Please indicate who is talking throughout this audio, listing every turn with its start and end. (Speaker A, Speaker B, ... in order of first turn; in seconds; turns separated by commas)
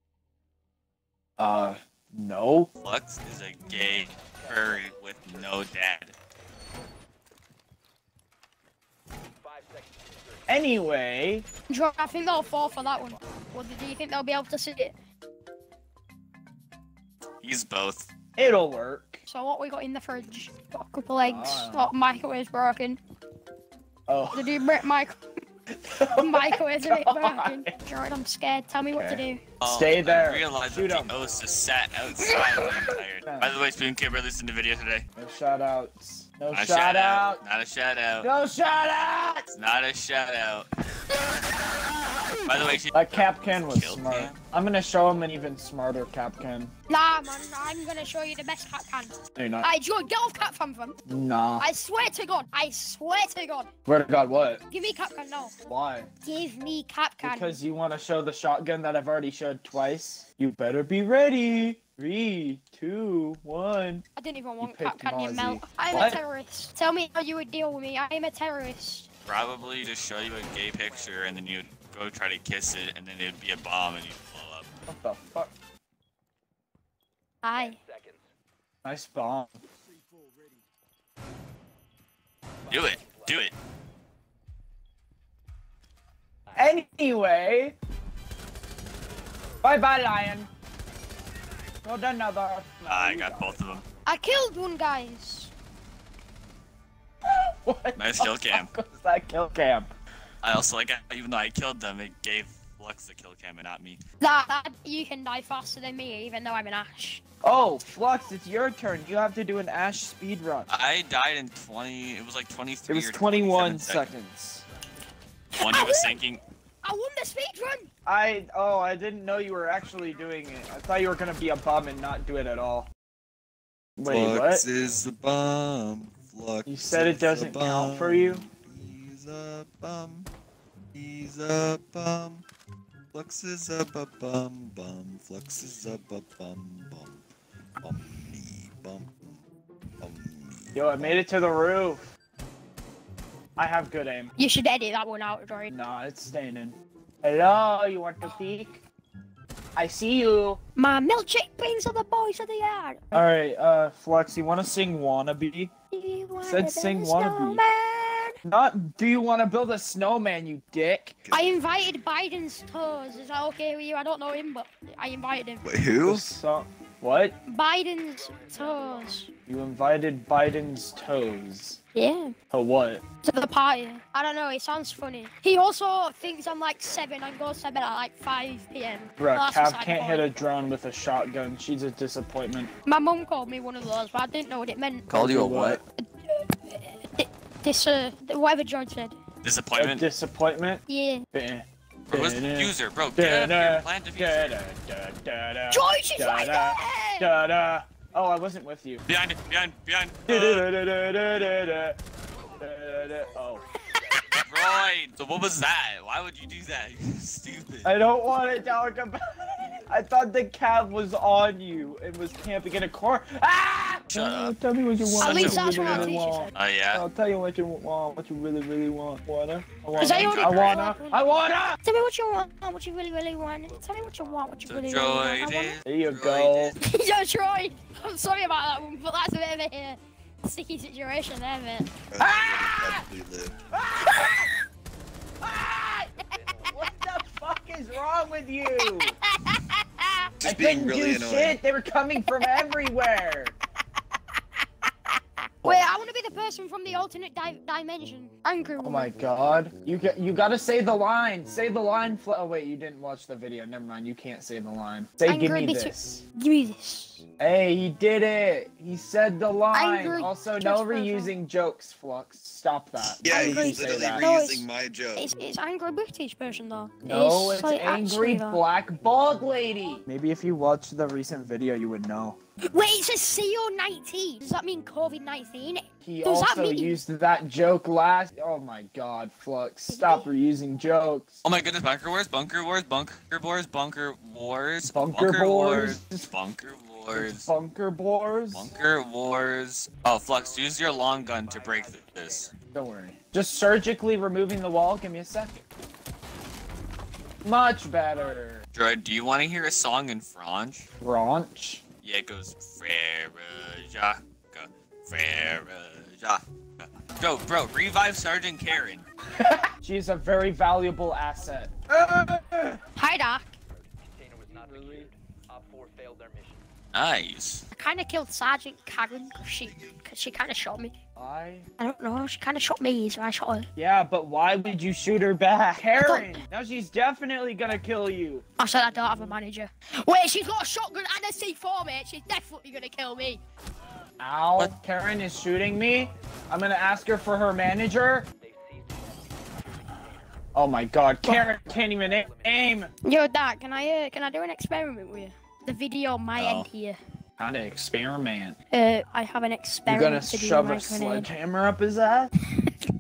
Speaker A: 1.4-2.7, Speaker B: 2.8-6.1, Speaker A: 10.5-11.5, Speaker C: 11.7-14.9, Speaker B: 17.4-18.1, Speaker A: 18.4-19.2, Speaker C: 19.3-23.0, Speaker A: 21.2-21.9, Speaker A: 24.1-24.6, Speaker C: 24.3-25.1, Speaker A: 25.9-27.7, Speaker C: 26.2-29.4, Speaker A: 28.9-31.1, Speaker B: 29.6-35.1, Speaker A: 33.3-33.6, Speaker A: 35.2-37.4, Speaker B: 36.5-38.3, Speaker A: 38.2-39.5, Speaker B: 39.5-40.7, Speaker B: 42.5-44.4, Speaker A: 42.9-46.7, Speaker C: 46.9-51.0, Speaker A: 49.4-49.7, Speaker A: 51.1-51.7, Speaker C: 51.6-53.7, Speaker A: 53.9-54.6, Speaker C: 54.7-55.5, Speaker A: 55.6-56.1, Speaker C: 56.2-57.6, Speaker A: 57.2-64.0, Speaker C: 64.2-69.1, Speaker A: 64.6-66.2, Speaker B: 69.2-74.7, Speaker A: 74.9-75.5, Speaker C: 77.4-77.8, Speaker D: 77.8-78.2, Speaker A: 78.8-79.6, Speaker B: 82.7-83.5, Speaker A: 86.5-87.8, Speaker A: 89.6-90.5, Speaker A: 91.8-93.6, Speaker B: 92.9-93.8, Speaker C: 94.1-95.5, Speaker A: 97.3-99.9, Speaker B: 98.0-98.7, Speaker B: 100.4-104.0, Speaker C: 104.2-107.2, Speaker A: 107.4-110.7, Speaker B: 110.7-114.1, Speaker A: 112.9-114.7, Speaker B: 115.5-116.4, Speaker C: 115.6-116.2, Speaker C: 116.8-117.9, Speaker A: 118.1-122.9, Speaker A: 124.0-124.7, Speaker E: 124.1-130.3, Speaker A: 126.7-128.5, Speaker E: 130.9-132.5, Speaker E: 133.1-137.2, Speaker E: 137.8-139.4, Speaker E: 140.0-141.2, Speaker A: 140.8-142.1, Speaker A: 143.6-144.3, Speaker C: 144.4-145.7, Speaker A: 145.7-148.8, Speaker A: 149.8-150.6, Speaker C: 150.8-153.2, Speaker A: 153.1-155.7, Speaker C: 155.9-158.4, Speaker A: 156.4-157.6, Speaker A: 158.4-161.2, Speaker E: 161.2-161.6, Speaker C: 161.3-165.7, Speaker E: 165.6-166.2, Speaker A: 166.0-167.4, Speaker C: 167.5-169.3, Speaker A: 169.5-171.8, Speaker C: 171.9-172.3, Speaker A: 172.5-173.0, Speaker C: 173.2-180.3, Speaker A: 179.2-182.7, Speaker C: 182.9-185.1, Speaker B: 185.1-185.8, Speaker A: 185.1-185.8, Speaker C: 186.2-189.2, Speaker B: 189.4-190.1, Speaker A: 189.8-199.0, Speaker C: 190.9-191.2, Speaker B: 192.1-194.6, Speaker C: 195.7-197.3, Speaker B: 199.1-200.7, Speaker A: 200.3-202.0, Speaker A: 202.6-203.7, Speaker B: 204.3-207.9, Speaker A: 207.8-221.8, Speaker B: 214.1-217.1, Speaker C: 215.2-216.5, Speaker C: 220.0-225.8, Speaker B: 220.0-220.8, Speaker B: 224.7-226.8, Speaker A: 225.9-226.8, Speaker C: 226.8-231.9, Speaker E: 232.1-233.6, Speaker A: 232.2-233.1, Speaker A: 233.7-234.5, Speaker A: 235.4-236.1, Speaker A: 236.7-239.2, Speaker C: 238.8-239.6, Speaker E: 240.4-241.6, Speaker A: 240.4-243.6, Speaker C: 242.4-242.7, Speaker C: 245.6-249.1, Speaker A: 248.8-256.2, Speaker C: 255.3-257.2, Speaker A: 257.4-264.3, Speaker C: 259.7-261.3, Speaker E: 263.0-265.3, Speaker C: 263.3-268.6, Speaker A: 267.0-272.4, Speaker C: 272.7-277.0, Speaker A: 276.1-281.4, Speaker C: 279.9-280.3, Speaker B: 281.4-287.5, Speaker A: 284.8-286.3, Speaker A: 287.1-288.7, Speaker B: 288.5-292.6, Speaker A: 292.7-295.6, Speaker A: 297.4-298.6, Speaker B: 298.7-300.9, Speaker A: 301.0-301.8, Speaker B: 302.0-309.1, Speaker A: 309.4-312.8, Speaker C: 313.0-313.6, Speaker D: 314.2-316.6, Speaker A: 314.7-315.1, Speaker B: 316.9-317.6, Speaker C: 317.7-320.9, Speaker A: 321.2-321.7, Speaker C: 321.8-323.7, Speaker A: 323.8-328.4, Speaker C: 326.0-326.4, Speaker C: 328.6-333.4, Speaker A: 334.2-338.3, Speaker D: 338.4-338.9, Speaker A: 340.6-342.9, Speaker D: 342.0-342.4, Speaker C: 343.0-347.0, Speaker B: 346.4-346.7, Speaker A: 347.4-348.6, Speaker C: 348.7-351.3, Speaker A: 349.9-352.3